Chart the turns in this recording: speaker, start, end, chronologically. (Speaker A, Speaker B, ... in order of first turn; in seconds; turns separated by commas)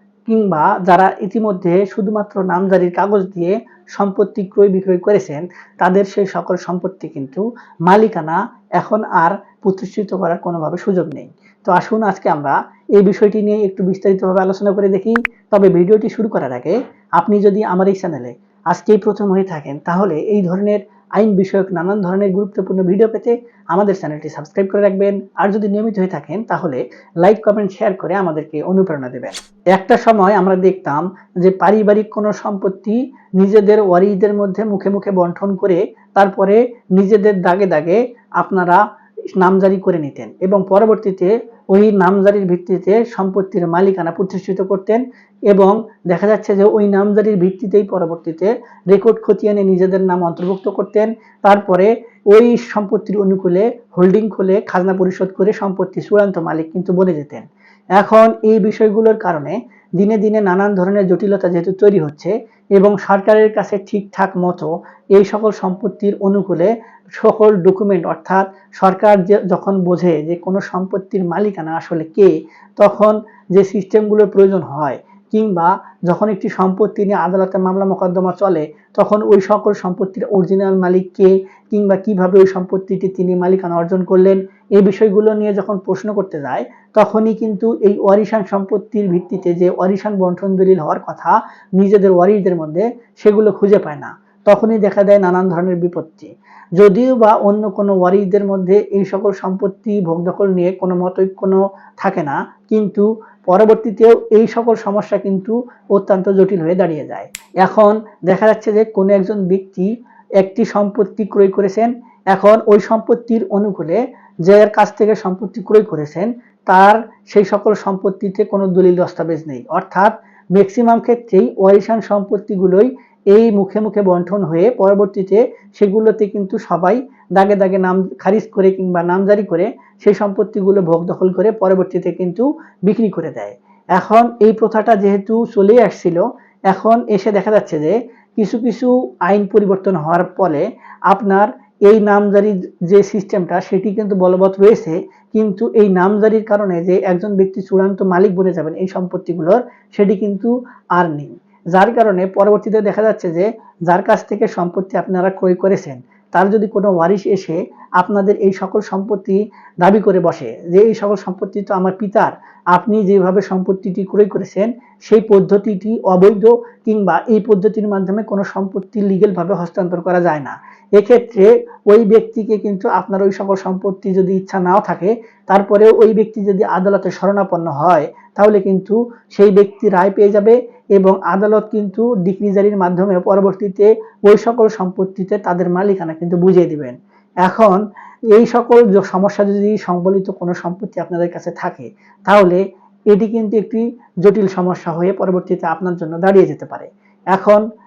Speaker A: 0.3-38.8, Speaker A: 39.4-197.6